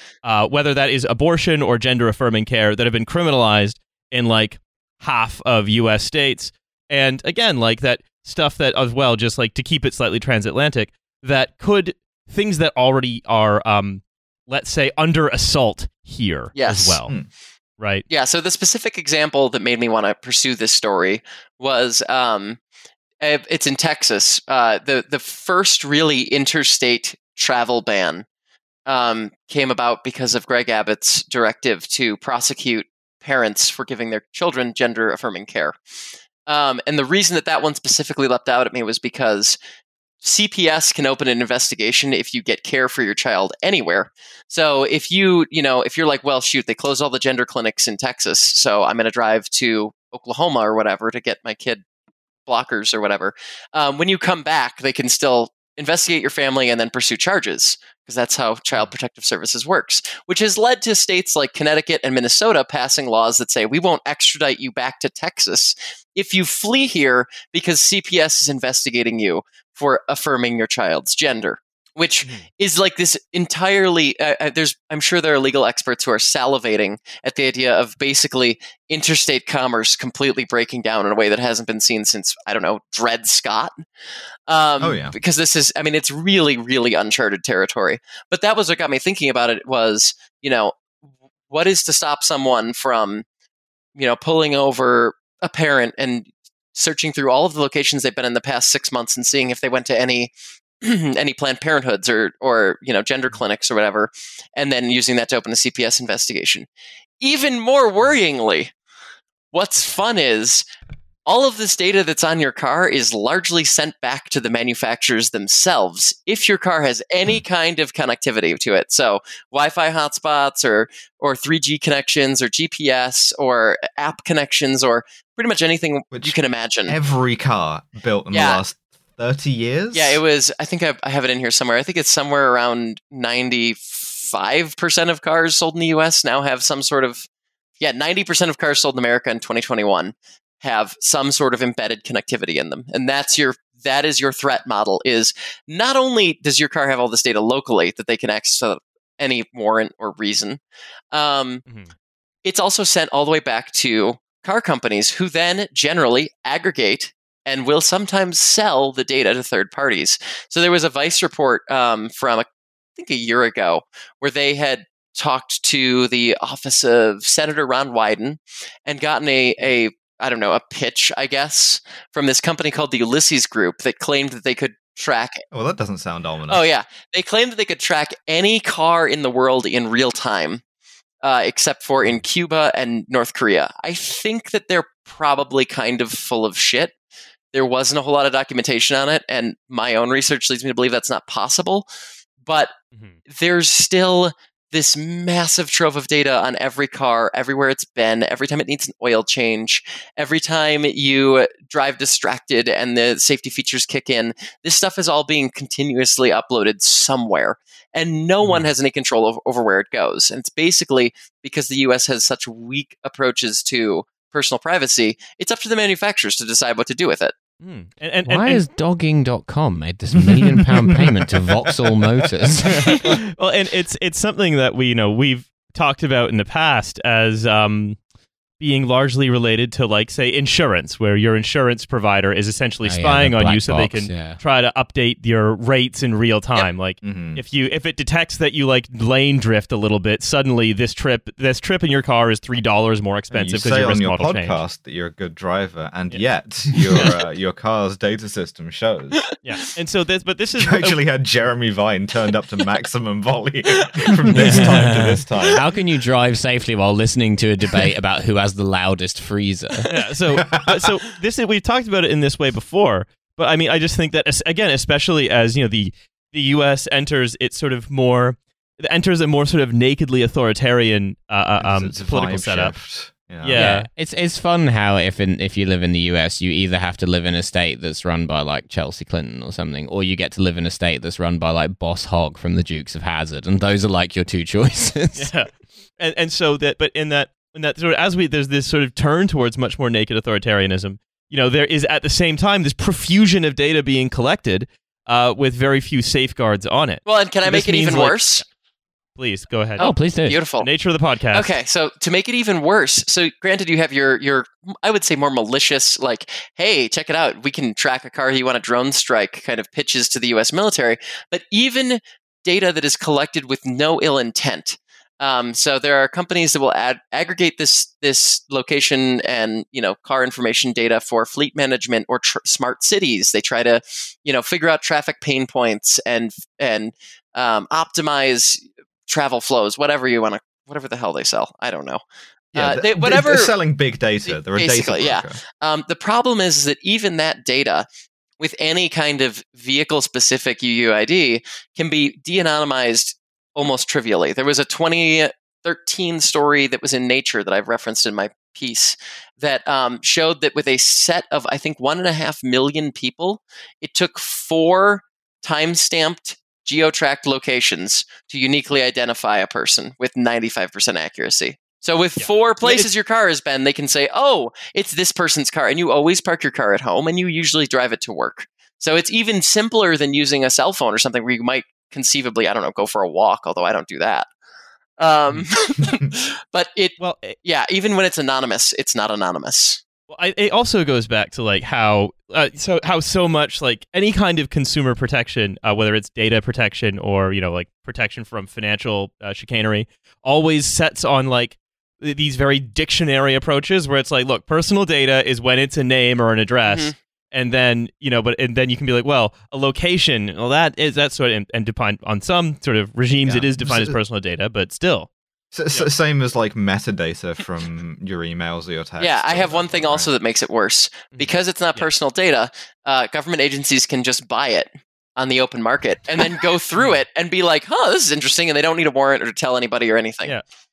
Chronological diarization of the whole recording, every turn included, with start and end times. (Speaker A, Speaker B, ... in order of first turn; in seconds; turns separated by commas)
Speaker A: 0.2-17.1, Speaker B: 16.5-17.0, Speaker A: 17.8-18.0, Speaker B: 18.1-22.6, Speaker B: 23.2-28.2, Speaker B: 28.9-35.8, Speaker B: 36.5-39.6, Speaker B: 40.2-51.8, Speaker B: 52.5-83.7, Speaker B: 84.5-90.8, Speaker C: 84.8-85.1, Speaker B: 91.5-93.2, Speaker B: 94.0-106.7, Speaker B: 107.2-108.7, Speaker B: 109.5-110.6, Speaker B: 111.2-127.0, Speaker C: 126.1-130.2, Speaker B: 128.3-128.6, Speaker B: 129.9-137.2, Speaker B: 137.8-151.6, Speaker A: 151.7-151.9, Speaker B: 152.4-175.4, Speaker C: 175.5-176.7, Speaker B: 176.5-180.6, Speaker B: 181.2-186.9, Speaker B: 187.5-191.9, Speaker B: 192.4-192.7, Speaker B: 193.3-217.3, Speaker A: 217.6-218.6, Speaker D: 218.2-223.1, Speaker C: 220.2-221.1, Speaker A: 223.0-228.0, Speaker A: 228.6-244.6, Speaker D: 232.8-234.4, Speaker C: 237.0-237.4, Speaker C: 243.3-249.2, Speaker A: 249.4-251.0, Speaker C: 250.6-255.6, Speaker D: 254.3-259.9, Speaker A: 259.9-272.7, Speaker C: 271.6-273.7, Speaker A: 273.4-273.9, Speaker D: 273.5-285.3, Speaker A: 285.1-298.4, Speaker B: 297.0-298.4, Speaker A: 299.1-299.9, Speaker B: 299.8-300.7, Speaker D: 299.8-300.4, Speaker A: 300.5-301.5, Speaker B: 301.3-332.0, Speaker B: 332.5-333.5, Speaker C: 332.5-335.4, Speaker B: 334.2-337.9, Speaker B: 338.4-374.3, Speaker A: 362.2-362.9, Speaker B: 375.0-379.8, Speaker A: 377.0-377.4, Speaker A: 380.1-405.1, Speaker B: 396.6-396.9, Speaker C: 403.2-404.0, Speaker C: 405.5-410.1, Speaker B: 409.0-420.4, Speaker A: 411.1-411.9